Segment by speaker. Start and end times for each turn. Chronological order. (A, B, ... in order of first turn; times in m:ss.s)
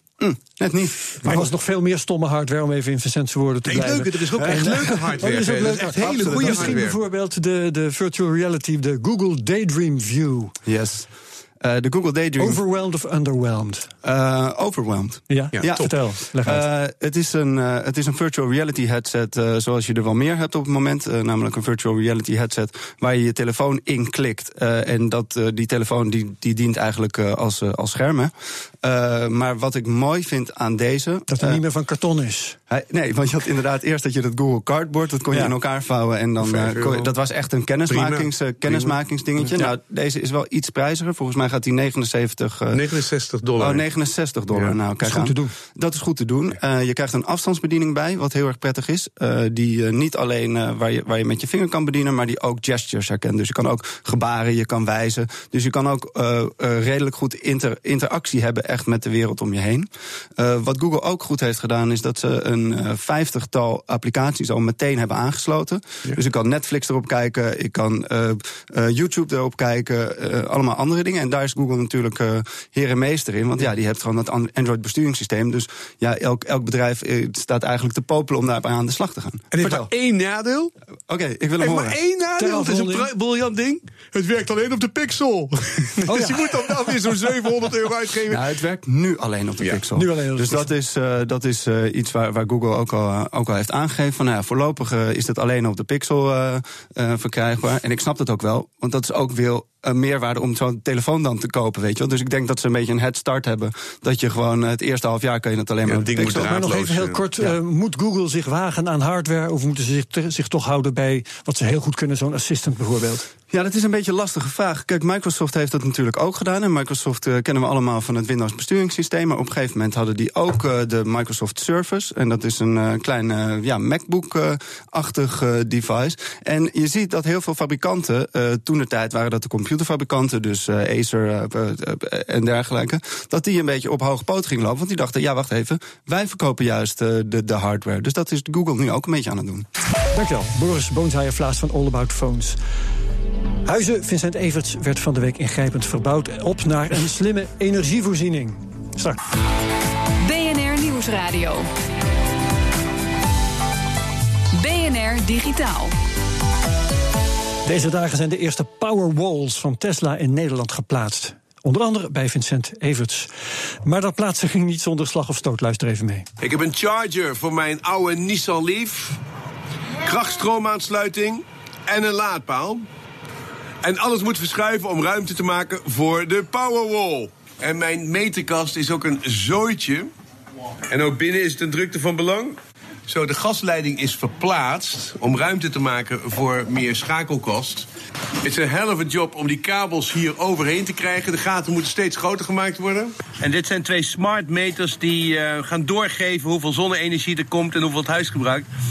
0:00.2-0:01.4 A
0:01.2-0:10.6 B
0:03.7-0:07.0 C
0:04.4-0:04.8 A
0:05.4-0:06.8 A
0:10.7-0:12.6 A
0:12.4-0:13.9 B
0:14.0-0:31.6 A
0:15.3-0:16.7 B
0:15.5-0:15.9 C
0:31.3-0:32.6 B
0:32.7-0:42.8 A
0:36.4-0:37.1 C
0:37.9-0:39.5 C
0:42.7-0:43.8 C
0:43.6-1:19.9 A
0:45.0-0:45.5 B
1:19.5-1:20.7 C
1:21.1-1:22.0 A
1:21.6-1:28.4 C
1:22.4-1:23.1 B
1:26.1-1:26.5 B
1:28.3-1:46.6 A
1:30.0-1:30.7 B
1:45.9-1:47.2 C
1:46.2-1:53.3 B
1:53.5-2:19.7 A
2:20.1-2:22.6 B
2:23.6-2:29.2 B
2:30.2-2:31.7 D
2:34.5-2:36.0 D
2:37.6-2:43.3 B
2:43.8-2:46.3 B
2:46.4-2:49.2 E
2:50.0-2:52.8 E
2:53.8-3:00.1 E
3:00.9-3:07.9 E
3:08.4-3:18.7 E